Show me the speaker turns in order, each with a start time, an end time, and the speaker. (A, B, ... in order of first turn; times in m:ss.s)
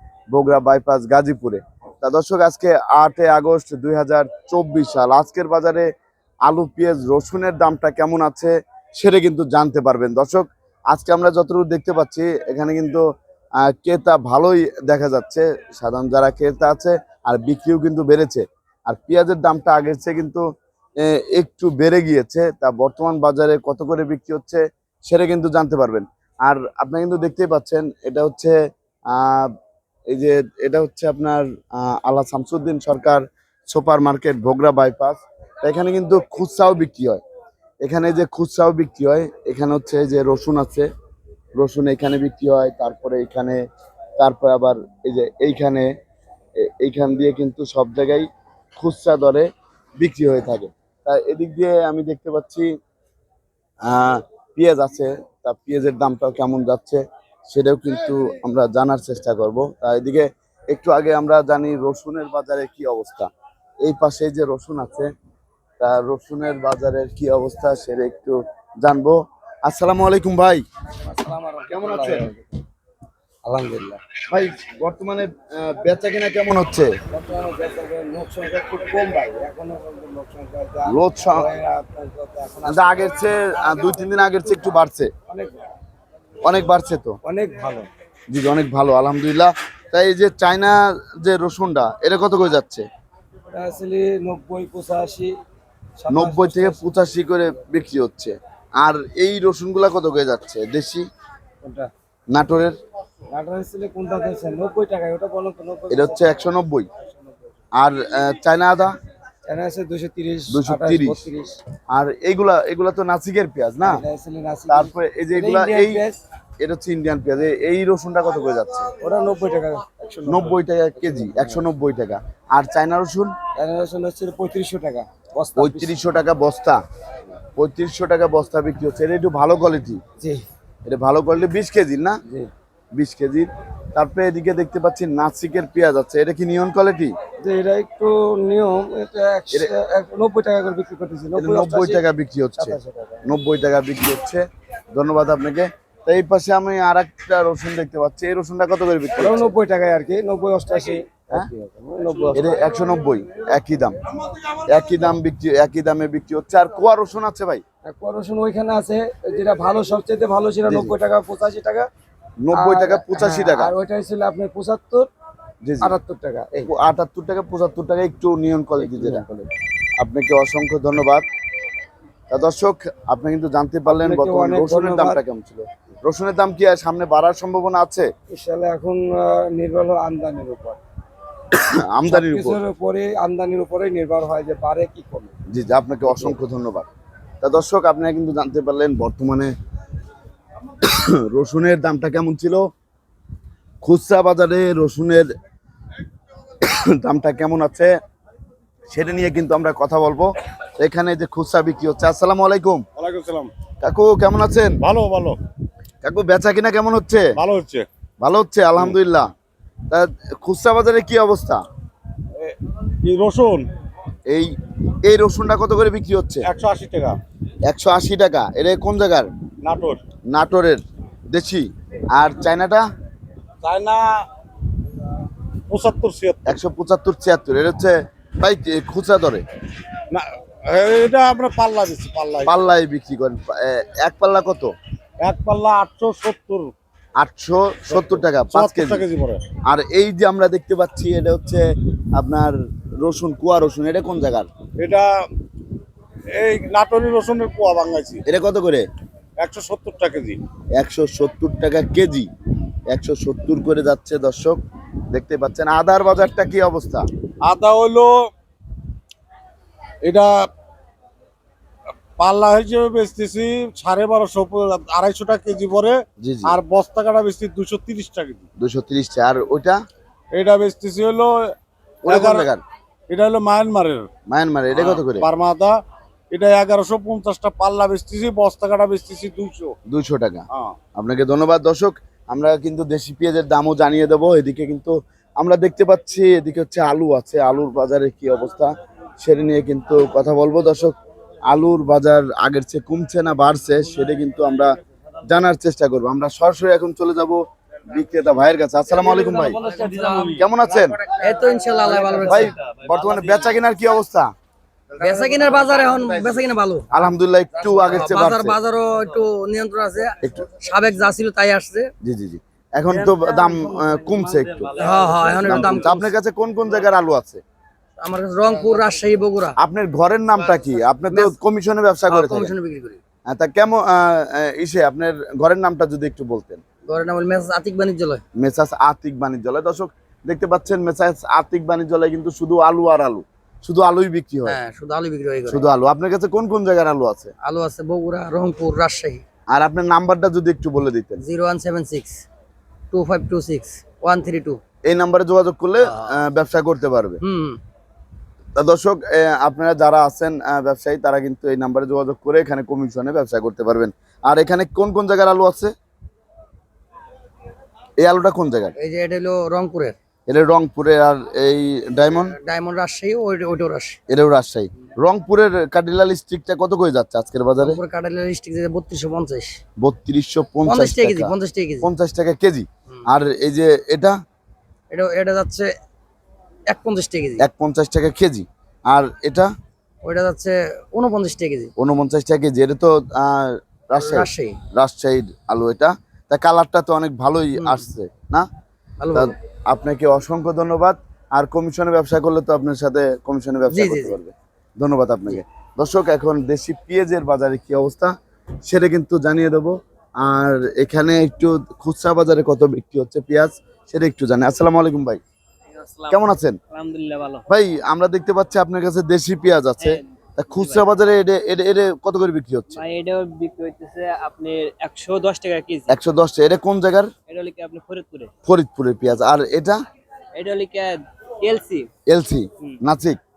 0:00.3-0:05.9 A
0:06.4-0:13.0 A
0:13.6-0:20.4 A
0:21.0-0:28.6 A
0:29.1-0:29.5 A
0:30.1-0:37.2 A
0:37.8-0:40.9 A
0:41.6-0:43.6 A
0:44.2-0:45.9 A
0:46.6-0:48.2 A
0:48.8-0:49.5 A
0:50.0-0:52.7 A
0:53.8-1:03.3 A
1:03.8-1:05.1 A
1:05.8-1:10.6 A
1:11.0-1:12.5 B
1:11.7-1:12.3 A
1:13.4-1:14.0 B
1:14.3-1:16.9 A
1:17.1-1:25.7 B
1:20.9-1:21.4 A
1:22.7-1:25.1 A
1:26.4-1:27.2 A
1:27.2-1:27.9 B
1:28.3-1:32.8 A
1:33.5-1:35.3 B
1:36.0-1:37.0 B
1:36.1-1:41.0 A
1:41.6-1:41.9 B
1:42.3-1:42.7 A
1:43.3-1:46.5 B
1:45.9-1:46.9 A
1:47.8-1:48.9 A
1:49.5-1:51.6 B
1:50.5-1:51.2 A
1:51.9-1:54.0 A
1:53.8-1:56.2 B
1:54.7-1:56.0 A
1:56.6-1:58.9 A
1:59.0-2:01.6 B
2:00.3-2:03.3 A
2:03.6-2:06.1 B
2:05.6-2:06.8 A
2:07.6-2:10.0 A
2:10.8-2:12.2 A
2:12.9-2:17.1 A
2:17.4-2:22.0 B
2:21.4-2:29.5 A
2:22.6-2:23.2 B
2:29.2-2:32.8 B
2:32.3-2:34.0 A
2:34.7-2:37.6 A
2:37.8-2:41.9 B
2:40.7-2:40.9 A
2:42.4-2:43.7 A
2:42.5-2:45.1 B
2:45.6-2:45.9 A
2:45.8-2:46.7 B
2:46.6-2:49.5 A
2:48.8-2:49.2 B
2:50.0-2:51.2 A
2:52.3-2:58.1 A
2:53.9-2:55.2 B
2:58.3-3:00.8 B
3:01.5-3:02.6 A
3:02.1-3:05.3 B
3:05.5-3:06.9 A
3:06.1-3:06.4 B
3:07.4-3:09.5 A
3:10.8-3:12.6 A
3:13.8-3:15.3 A
3:16.6-3:17.9 A
3:18.9-3:22.8 A
3:23.0-3:23.5 C
3:23.8-3:24.8 A
3:24.8-3:25.4 C
3:26.0-3:27.3 A
3:27.4-3:27.9 C
3:28.2-3:29.3 A
3:29.9-3:31.6 A
3:32.4-3:33.7 C
3:34.3-3:36.4 A
3:36.5-3:37.2 C
3:37.6-3:39.3 A
3:39.6-3:40.0 C
3:40.3-3:42.8 A
3:43.6-3:44.2 C
3:45.7-3:46.5 C
3:46.4-3:49.4 A
3:50.1-3:52.5 C
3:52.4-3:54.7 A
3:55.2-3:56.7 C
3:57.2-3:59.0 A
3:57.9-3:59.4 C
3:59.7-4:01.6 A
4:02.1-4:04.5 A
4:04.8-4:05.1 C
4:06.3-4:08.2 C
4:08.2-4:08.8 A
4:09.4-4:10.4 C
4:10.8-4:12.3 A
4:12.9-4:14.6 A
4:15.1-4:17.1 A
4:17.4-4:18.3 C
4:20.0-4:20.5 C
4:22.2-4:28.4 C
4:26.2-4:26.6 A
4:28.6-4:29.8 A
4:30.3-4:31.5 C
4:32.0-4:32.6 A
4:32.0-4:32.5 C
4:33.1-4:34.1 C
4:34.3-4:35.3 A
4:34.7-4:35.8 C
4:36.3-4:39.7 C
4:39.9-4:40.4 A
4:41.0-4:50.9 A
4:51.5-4:59.6 A
4:59.6-5:00.4 D
4:59.8-5:00.3 C
5:00.2-5:01.0 A
5:01.0-5:02.6 D
5:02.2-5:04.3 A
5:05.0-5:06.9 D
5:06.9-5:08.6 A
5:07.6-5:11.9 D
5:10.2-5:10.5 A
5:12.0-5:17.4 A
5:13.1-5:15.4 C
5:14.8-5:16.0 D
5:18.0-5:19.5 D
5:19.6-5:22.5 A
5:22.1-5:23.0 D
5:23.3-5:26.6 A
5:26.9-5:28.2 D
5:28.4-5:34.6 A
5:34.4-5:35.7 D
5:35.5-5:37.3 A
5:37.4-5:39.2 D
5:39.5-5:41.2 A
5:41.2-5:42.2 D
5:42.9-5:44.6 D
5:44.8-5:47.2 A
5:47.2-5:47.6 D
5:48.6-5:55.7 A
5:58.0-5:58.7 A
5:58.8-6:00.0 D
6:00.3-6:02.4 A
6:02.3-6:04.0 D
6:04.1-6:07.8 A
6:07.6-6:09.6 D
6:09.8-6:14.2 A
6:10.6-6:11.9 D
6:14.9-6:15.7 D
6:16.7-6:17.4 D
6:17.4-6:19.5 A
6:20.0-6:21.7 D
6:21.8-6:28.5 A
6:24.0-6:24.6 D
6:27.6-6:27.8 D
6:29.0-6:29.3 D
6:29.1-6:38.1 A
6:33.7-6:34.2 D
6:38.6-6:45.2 A
6:45.8-6:46.1 E
6:46.1-6:46.6 A
6:46.7-6:47.4 E
6:47.5-6:52.8 A
6:50.6-6:50.8 E
6:52.8-6:55.9 E
6:55.9-6:57.1 A
6:57.3-6:58.3 E
6:58.4-6:59.8 A
7:00.4-7:01.9 E
7:02.1-7:03.2 A